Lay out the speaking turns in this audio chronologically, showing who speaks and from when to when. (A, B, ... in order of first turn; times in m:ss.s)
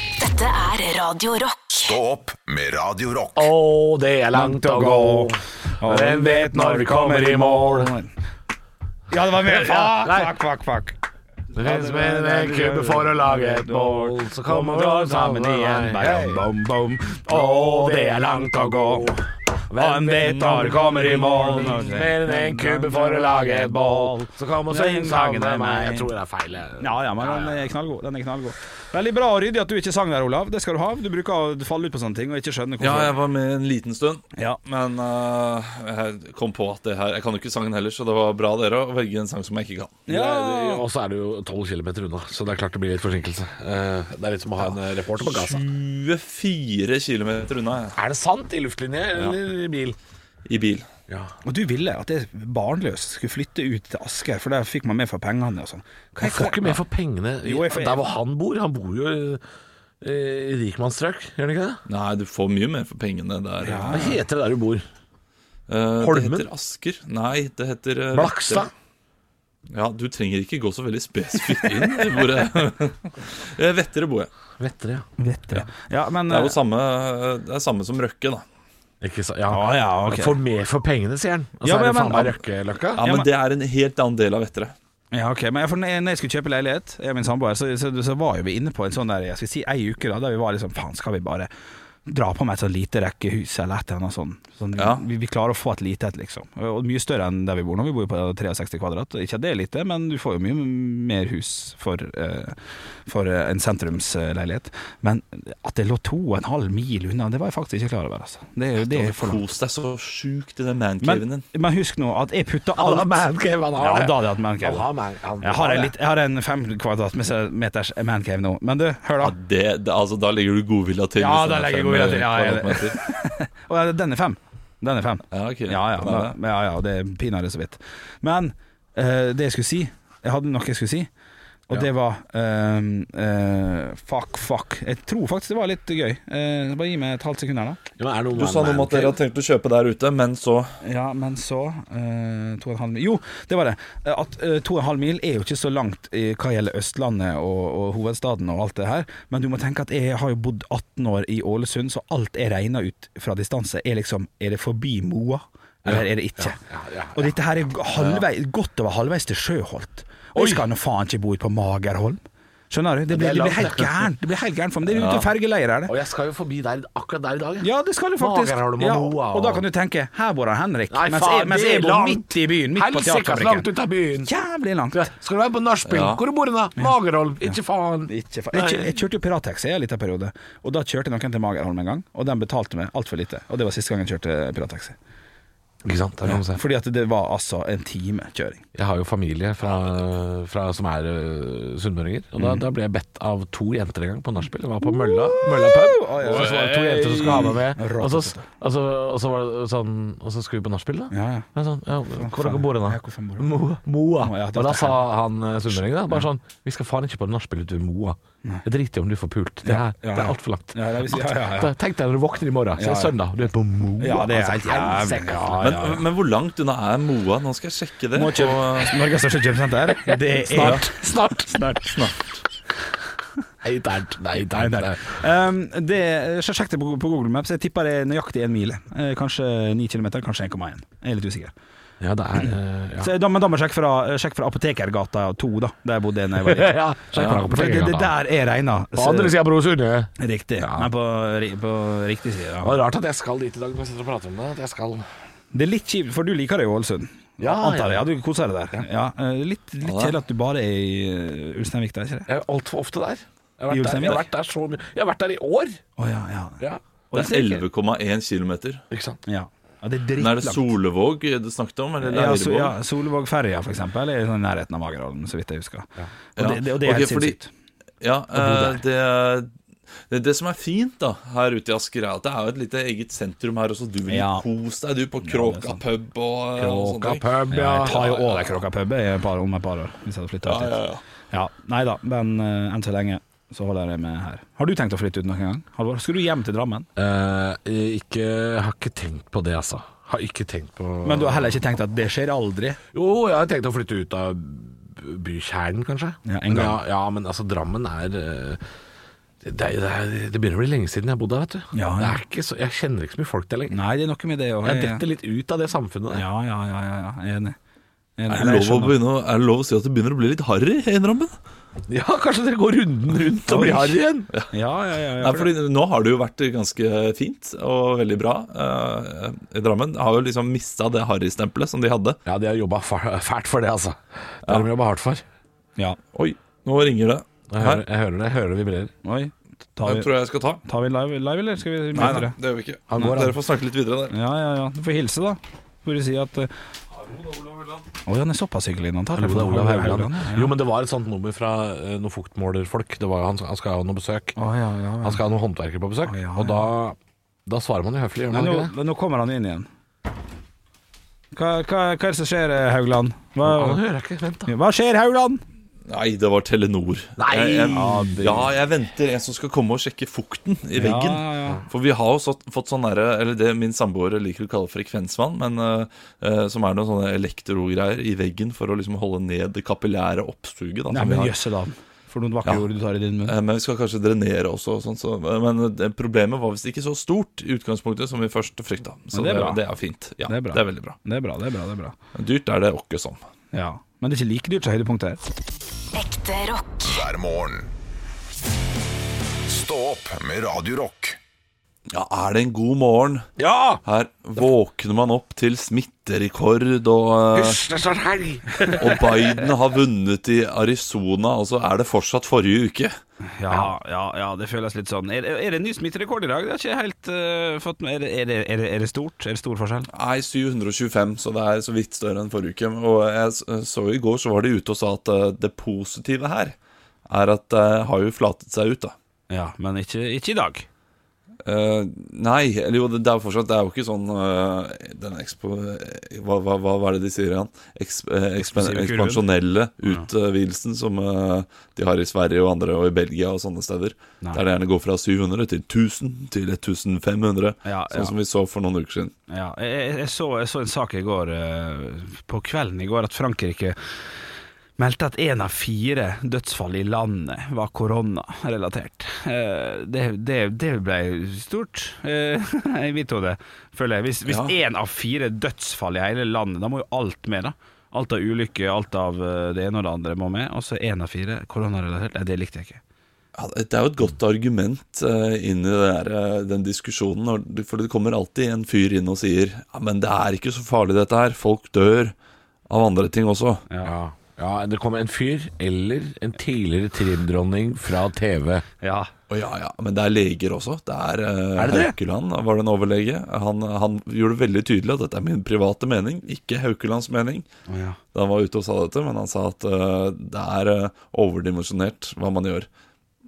0:00.2-0:02.0 A
0:01.7-0:03.5 B
0:03.4-0:07.9 C
0:04.3-0:08.1 D
0:09.1-0:11.0 D
0:09.5-0:10.3 C
0:11.5-0:16.4 C
0:11.6-0:19.1 D
0:17.2-0:27.7 C
0:19.8-0:26.1 D
0:26.8-0:33.1 D
0:32.8-0:40.0 E
0:40.1-0:40.8 D
0:40.1-0:45.6 C
0:45.2-0:47.9 E
0:47.9-0:50.0 C
0:50.4-0:50.9 E
0:51.1-0:51.3 C
0:51.4-0:56.8 D
0:56.2-0:59.4 C
0:57.4-0:58.1 D
1:00.0-1:01.8 C
1:01.9-1:04.1 E
1:03.6-1:04.2 D
1:03.9-1:04.8 C
1:05.7-1:08.6 E
1:06.0-1:06.5 C
1:08.1-1:08.7 C
1:09.7-1:14.3 E
1:14.6-1:15.0 C
1:15.2-1:16.5 D
1:16.3-1:18.4 E
1:19.0-1:23.0 C
1:19.5-1:20.4 D
1:21.6-1:22.4 D
1:23.0-1:24.7 E
1:23.0-1:23.2 D
1:25.1-1:31.5 D
1:32.0-1:49.4 D
1:34.8-1:35.0 E
1:48.9-1:51.4 E
1:51.0-1:54.8 D
1:52.8-1:55.9 C
1:55.4-1:59.3 D
1:59.2-2:03.0 E
2:01.2-2:11.1 D
2:05.3-2:06.3 E
2:11.7-2:17.8 D
2:18.0-2:19.2 C
2:18.3-2:20.8 E
2:20.8-2:36.6 D
2:35.8-2:38.2 C
2:37.1-2:45.9 D
2:40.4-2:40.6 C
2:43.1-2:44.1 C
2:44.9-2:45.3 E
2:45.8-2:49.6 C
2:47.6-2:53.7 D
2:50.9-2:54.3 C
2:54.2-2:55.1 D
2:54.9-2:58.9 C
2:55.9-2:56.2 E
2:58.1-3:05.0 D
3:05.8-3:06.6 C
3:06.2-3:08.6 D
3:08.7-3:36.0 C
3:15.3-3:18.4 D
3:21.1-3:21.5 D
3:22.1-3:23.5 D
3:24.2-3:25.1 D
3:29.6-3:31.7 D
3:32.8-3:33.1 D
3:34.0-3:36.0 D
3:35.6-3:38.9 E
3:38.1-3:40.9 D
3:40.1-3:41.8 C
3:40.6-3:40.8 E
3:41.8-3:42.3 E
3:43.6-3:45.2 C
3:44.4-3:51.5 D
3:52.0-3:53.1 C
3:53.0-3:59.4 D
3:56.3-3:58.1 C
3:58.9-4:00.9 C
4:00.2-4:02.8 D
4:02.6-4:05.0 C
4:05.5-4:12.3 D
4:07.4-4:08.1 C
4:09.8-4:10.2 E
4:12.3-4:15.8 C
4:13.7-4:14.3 D
4:16.0-4:17.6 D
4:17.1-4:18.8 E
4:18.9-4:19.2 C
4:19.2-4:20.7 D
4:20.2-4:22.7 E
4:22.0-4:27.5 D
4:26.4-4:27.4 E
4:28.0-4:29.5 E
4:28.3-4:28.8 D
4:30.1-4:38.5 E
4:34.1-4:34.4 D
4:35.2-4:35.8 D
4:36.6-4:38.1 C
4:37.5-4:40.8 D
4:40.4-4:41.0 E
4:41.3-4:46.9 D
4:47.0-4:51.6 C
4:51.0-4:52.8 D
4:52.9-4:58.6 C
4:56.2-4:56.8 D
4:59.4-5:03.8 C
5:01.7-5:02.2 D
5:03.7-5:05.0 D
5:04.6-5:06.2 C
5:06.1-5:07.6 D
5:08.2-5:09.0 D
5:08.3-5:11.3 E
5:11.9-5:14.3 C
5:13.5-5:14.0 D
5:14.5-5:15.5 D
5:15.2-5:22.2 E
5:22.2-5:25.2 C
5:26.1-5:27.8 E
5:27.5-5:28.9 C
5:29.0-5:30.1 D
5:29.8-5:30.6 E
5:30.6-5:32.3 D
5:31.9-5:34.1 E
5:32.9-5:33.4 C
5:34.1-5:36.5 D
5:37.0-5:37.8 E
5:38.0-5:40.5 D
5:39.1-5:44.4 C
5:44.4-5:45.2 D
5:45.0-5:48.7 C
5:46.1-5:46.7 D
5:48.3-5:49.7 D
5:51.3-5:53.8 D
5:53.4-5:54.5 C
5:54.5-5:55.4 D
5:55.9-6:11.4 E
5:57.2-5:58.5 C
5:57.7-5:58.4 D
6:00.8-6:01.6 D
6:10.9-6:13.3 D
6:13.2-6:21.0 E
6:19.1-6:19.6 D
6:20.3-6:21.9 D
6:22.1-6:23.2 E
6:23.5-6:25.2 D
6:25.9-6:27.0 A
6:26.8-6:27.7 B
6:29.5-6:31.2 B
6:31.9-6:33.3 E
6:33.4-6:33.8 C
6:33.8-6:37.6 E
6:37.3-6:39.1 C
6:38.8-6:42.9 E
6:43.2-6:49.9 D
6:49.9-6:56.5 E
6:57.0-6:58.9 E
6:59.3-7:00.7 D
7:01.4-7:19.1 E
7:08.4-7:09.2 D
7:17.6-7:18.1 D
7:19.3-7:23.8 D
7:24.8-7:42.8 D
7:34.2-7:34.5 E
7:43.3-7:52.1 E
7:52.7-7:53.6 E
7:53.8-7:58.6 C
7:58.8-7:59.1 D
7:59.3-8:07.4 E
8:01.6-8:01.9 D
8:01.6-8:01.9 C
8:07.7-8:08.0 D
8:08.1-8:12.7 E